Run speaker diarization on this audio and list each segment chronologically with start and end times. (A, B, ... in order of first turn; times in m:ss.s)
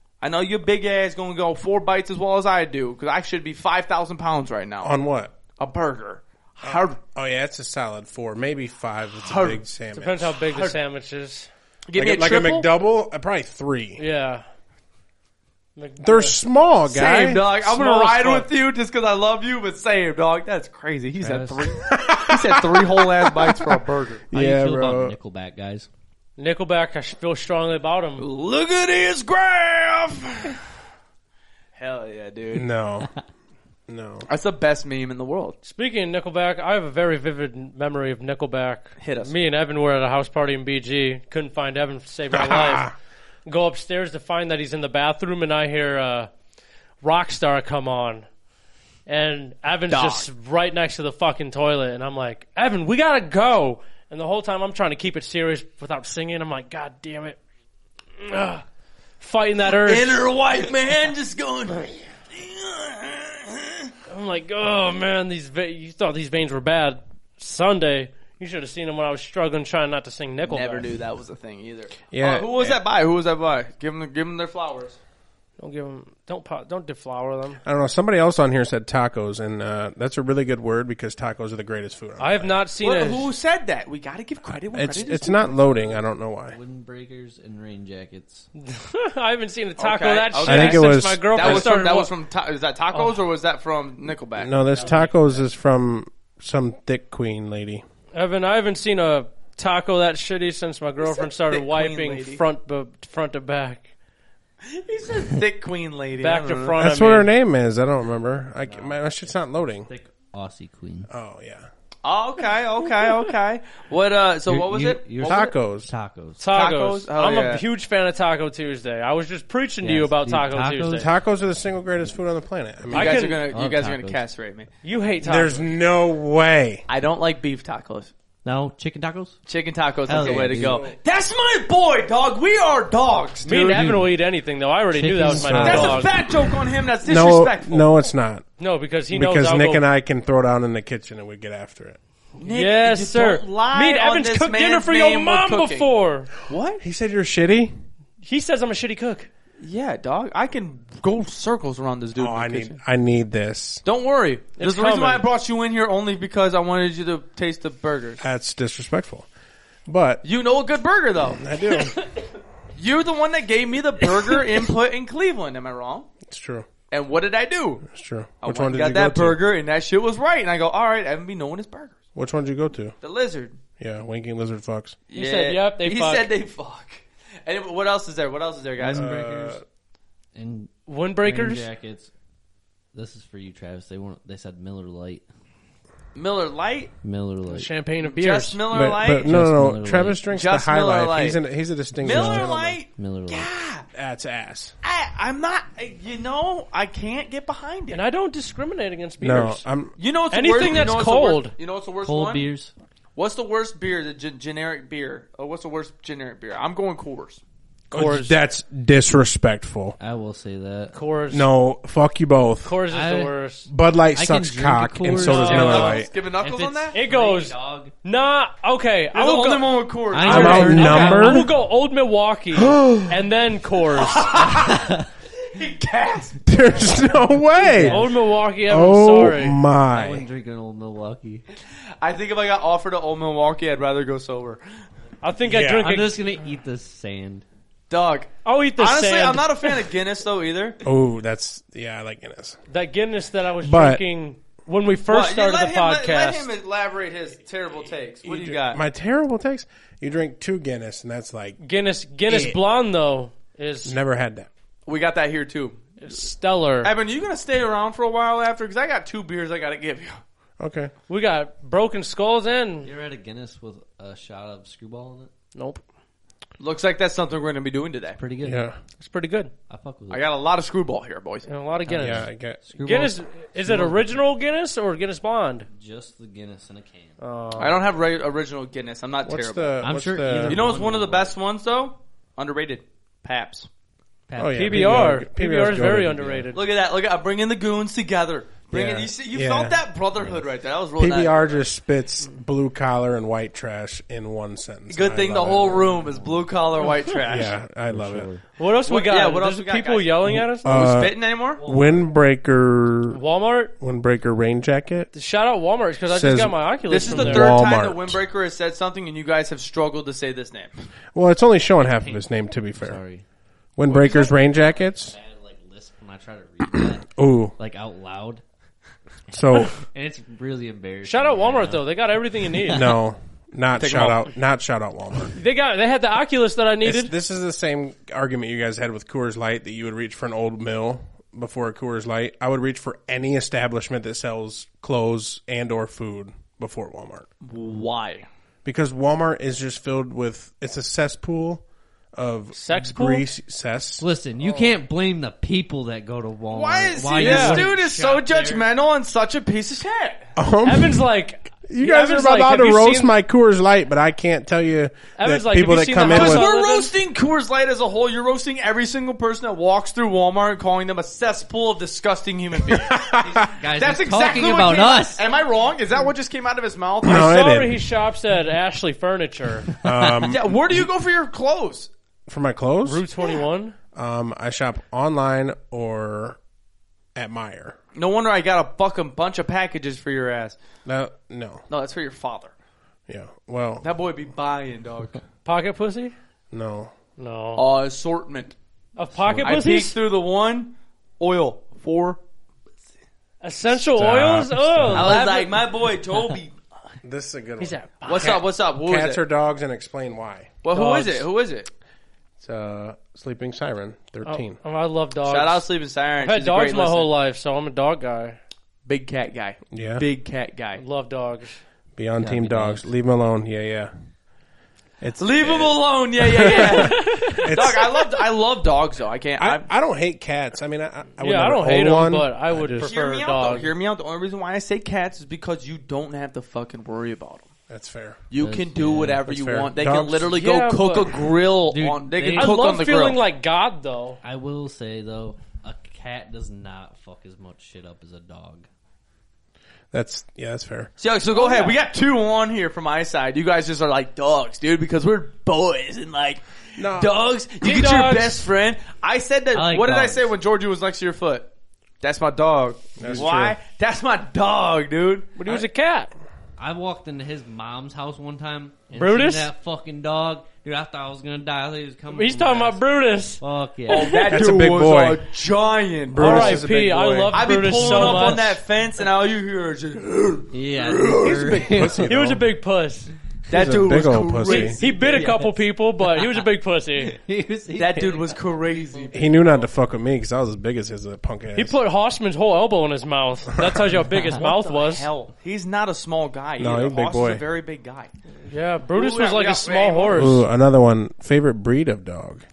0:00.2-0:05.0 A
0:04.8-0:05.3 B
0:05.6-0:07.0 A
0:06.6-0:10.4 B
0:09.2-0:09.6 A
0:09.9-0:11.5 C
0:10.5-0:10.8 A
0:11.9-0:12.7 A
0:12.0-0:14.0 B
0:14.0-0:14.4 C
0:15.8-0:16.4 C
0:16.0-0:17.4 B
0:16.9-0:24.2 A
0:17.3-0:18.5 C
0:21.2-0:21.7 D
0:21.8-0:25.2 B
0:24.3-0:25.9 D
0:26.4-0:28.2 C
0:28.2-0:30.6 A
0:31.8-0:32.7 A
0:32.5-0:33.1 B
0:33.9-0:34.3 B
0:34.3-0:35.6 A
0:35.6-0:42.9 C
0:39.0-0:39.4 A
0:42.3-0:42.9 B
0:43.5-0:46.3 C
0:47.0-0:48.3 C
0:49.1-0:57.4 C
0:49.9-0:50.3 A
0:58.2-0:58.6 C
0:59.2-1:00.2 C
0:59.7-1:03.9 A
1:04.1-1:10.9 C
1:10.4-1:15.0 A
1:12.1-1:12.8 B
1:15.6-1:17.6 C
1:17.6-1:22.6 B
1:22.2-1:23.3 C
1:22.8-1:25.6 A
1:24.7-1:26.6 B
1:25.7-1:28.5 D
1:28.6-1:32.1 C
1:29.8-1:35.0 A
1:30.4-1:31.7 B
1:34.4-1:37.8 B
1:34.7-1:35.5 D
1:38.1-1:43.9 C
1:41.0-1:42.4 A
1:44.6-1:46.9 A
1:46.2-1:47.3 C
1:46.8-1:49.9 B
1:48.6-1:51.1 D
1:51.1-1:51.7 B
1:52.0-1:55.5 A
1:54.5-1:56.4 D
1:55.2-1:55.9 B
1:56.4-2:01.1 C
1:56.5-1:57.6 A
1:59.8-2:01.1 D
2:00.9-2:03.2 B
2:02.9-2:03.4 C
2:02.9-2:04.7 A
2:03.2-2:04.2 D
2:04.8-2:05.6 C
2:05.2-2:06.8 B
2:06.9-2:08.1 A
2:08.4-2:09.4 D
2:09.5-2:13.9 A
2:10.1-2:10.9 D
2:10.1-2:11.0 B
2:13.4-2:16.2 C
2:13.5-2:14.2 D
2:14.9-2:16.1 D
2:15.3-2:16.1 B
2:15.6-2:17.9 A
2:17.0-2:18.4 B
2:18.6-2:19.8 C
2:19.1-2:22.0 B
2:22.4-2:25.9 A
2:22.4-2:26.3 C
2:26.5-2:26.8 A
2:26.8-2:27.7 B
2:28.2-2:29.3 C
2:29.6-2:32.8 A
2:32.2-2:33.8 B
2:33.8-2:38.2 A
2:34.6-2:35.2 C
2:38.2-2:39.3 B
2:39.9-2:40.2 B
2:40.2-2:41.4 A
2:41.4-2:42.0 B
2:42.8-2:46.1 A
2:46.3-2:46.7 B
2:46.9-2:47.9 A
2:47.8-2:49.4 B
2:48.4-2:52.0 A
2:52.2-2:53.0 B
2:53.0-2:53.6 A
2:53.8-2:55.0 B
2:55.1-2:59.1 A
2:55.1-2:56.3 C
2:58.8-2:59.6 D
2:58.9-2:59.6 B
3:00.4-3:02.1 D
3:00.9-3:01.7 C
3:02.9-3:05.2 D
3:06.2-3:06.9 A
3:07.0-3:07.7 D
3:07.5-3:08.6 C
3:08.0-3:09.3 A
3:08.7-3:12.8 B
3:09.2-3:10.2 D
3:10.3-3:11.4 A
3:12.0-3:13.5 D
3:12.0-3:13.9 A
3:13.9-3:14.7 B
3:14.8-3:18.0 A
3:17.9-3:19.6 C
3:19.2-3:19.9 B
3:20.0-3:22.5 A
3:20.3-3:21.5 C
3:22.0-3:22.7 D
3:23.2-3:27.4 A
3:27.9-3:30.0 B
3:27.9-3:28.4 C
3:30.0-3:31.0 D
3:30.9-3:31.5 C
3:31.3-3:32.8 B
3:32.6-3:33.7 C
3:32.9-3:33.3 D
3:33.7-3:36.1 B
3:34.1-3:37.9 D
3:35.2-3:36.0 C
3:35.2-3:37.0 A
3:36.9-3:44.4 C
3:39.1-3:41.0 A
3:40.1-3:41.5 D
3:40.2-3:41.5 B
3:42.5-3:43.2 B
3:44.0-3:46.5 A
3:44.4-3:45.1 D
3:46.5-3:48.1 B
3:47.6-3:48.1 D
3:47.8-3:49.6 C
3:48.7-3:50.3 B
3:49.9-3:51.4 D
3:52.0-3:54.6 A
3:55.2-3:56.2 C
3:55.4-3:55.9 B
3:55.8-3:57.4 D
3:57.9-4:00.8 A
3:58.4-3:59.9 C
4:00.8-4:02.6 B
4:02.7-4:06.5 C
4:03.6-4:04.0 B
4:05.1-4:08.8 A
4:08.2-4:11.6 B
4:11.6-4:14.0 C
4:12.3-4:12.6 B
4:13.8-4:14.5 B
4:14.9-4:15.8 A
4:16.0-4:16.9 C
4:16.8-4:20.2 A
4:20.6-4:20.9 B
4:21.1-4:22.9 C
4:22.8-4:25.3 D
4:25.6-4:25.8 C
4:26.6-4:28.2 A
4:28.2-4:28.7 D
4:28.4-4:28.8 B
4:29.0-4:29.5 C
4:29.7-4:30.2 D
4:30.1-4:31.5 A
4:31.5-4:32.3 C
4:31.8-4:34.2 D
4:32.0-4:32.6 B
4:32.8-4:35.7 C
4:35.7-4:37.2 D
4:37.2-4:37.8 C
4:37.6-4:39.8 A
4:39.2-4:40.8 B
4:39.8-4:41.4 D
4:40.4-4:43.7 A
4:44.3-4:45.2 D
4:44.4-4:46.5 B
4:44.5-4:46.6 C
4:46.5-4:51.6 A
4:48.7-4:49.8 B
4:51.0-4:56.0 B
4:54.9-4:57.6 A
4:55.8-4:56.9 D
4:57.2-4:58.3 B
4:57.9-4:58.4 D
4:58.6-5:00.8 C
4:58.9-5:01.6 A
5:00.3-5:03.2 B
5:01.6-5:02.1 D
5:03.1-5:03.7 C
5:03.8-5:05.1 B
5:05.1-5:07.6 C
5:06.1-5:08.2 B
5:06.9-5:10.9 A
5:11.1-5:13.0 B
5:11.7-5:13.2 D
5:13.8-5:15.2 B
5:13.9-5:18.4 D
5:16.7-5:17.6 B
5:19.3-5:21.9 D
5:19.3-5:19.7 B
5:21.0-5:22.9 C
5:22.5-5:22.9 D
5:22.7-5:25.4 B
5:23.8-5:24.3 A
5:25.3-5:27.1 C
5:26.8-5:37.3 B
5:37.4-5:38.3 A
5:38.6-5:41.6 B
5:42.2-5:44.0 B
5:42.5-5:43.2 C
5:44.0-5:48.7 D
5:44.4-5:44.8 C
5:46.5-5:50.3 A
5:47.2-5:47.7 C
5:50.4-5:51.1 B
5:50.6-5:53.1 C
5:51.6-5:56.5 B
5:55.2-5:56.9 C
5:56.1-6:07.4 A
6:02.7-6:03.5 B
6:03.3-6:05.2 D
6:07.0-6:07.9 B
6:07.0-6:09.7 C
6:09.8-6:10.9 B
6:09.8-6:10.4 D
6:10.3-6:11.9 A
6:12.3-6:13.0 B
6:12.8-6:13.8 C
6:14.0-6:16.4 B
6:17.2-6:17.8 B
6:17.9-6:20.6 A
6:20.8-6:21.6 B
6:21.7-6:22.5 A
6:23.1-6:23.8 B
6:23.8-6:25.2 A
6:25.4-6:26.1 C
6:26.5-6:26.9 B
6:27.2-6:27.6 C
6:27.6-6:28.6 A
6:29.0-6:30.0 C
6:29.2-6:29.6 B
6:29.4-6:32.2 A
6:33.4-6:35.7 C
6:33.7-6:35.1 B
6:34.9-6:36.6 A
6:37.0-6:40.5 B
6:37.6-6:38.4 C
6:38.0-6:39.2 A
6:40.6-6:41.7 A
6:40.7-6:41.3 C
6:42.4-6:44.6 B
6:44.2-6:45.7 C
6:45.2-6:47.1 A
6:46.2-6:48.4 C
6:48.9-6:50.8 A
6:49.7-6:50.0 B
6:50.8-6:51.6 C
6:52.0-6:53.9 B
6:52.2-6:52.9 D
6:55.0-6:57.8 B
6:55.2-6:59.7 A
6:56.4-6:57.9 C
6:59.4-7:02.9 B
7:01.2-7:03.7 C
7:02.8-7:07.5 A
7:07.7-7:08.2 B
7:08.3-7:13.2 A
7:08.4-7:09.3 D
7:09.3-7:10.4 B
7:10.3-7:11.3 C
7:11.7-7:12.7 D
7:12.4-7:14.2 C
7:14.2-7:18.7 D
7:19.9-7:20.9 B
7:21.0-7:31.5 A
7:21.4-7:21.7 C
7:26.8-7:27.2 B
7:27.6-7:28.4 C
7:29.5-7:30.3 D
7:32.0-7:35.6 A
7:33.0-7:33.6 B
7:35.4-7:36.1 C
7:36.6-7:42.8 D
7:38.9-7:39.5 C
7:42.1-7:44.3 C
7:43.4-7:44.3 D
7:43.9-7:46.6 A
7:44.3-7:45.2 B
7:46.1-7:47.5 B
7:46.2-7:48.6 C
7:47.3-7:51.7 A
7:47.7-7:48.5 D
7:50.5-7:52.1 D
7:51.2-7:52.4 B
7:52.0-7:53.1 C
7:53.5-7:55.3 A
7:53.5-7:54.8 B
7:54.4-7:57.2 C
7:55.0-7:56.4 D
7:57.0-7:59.7 D
7:57.8-7:59.4 A
7:59.1-8:01.8 B
8:01.6-8:05.1 C
8:03.6-8:03.9 B
8:04.4-8:08.1 A
8:06.6-8:07.4 B
8:08.5-8:10.4 C
8:09.0-8:10.4 A
8:10.1-8:12.4 B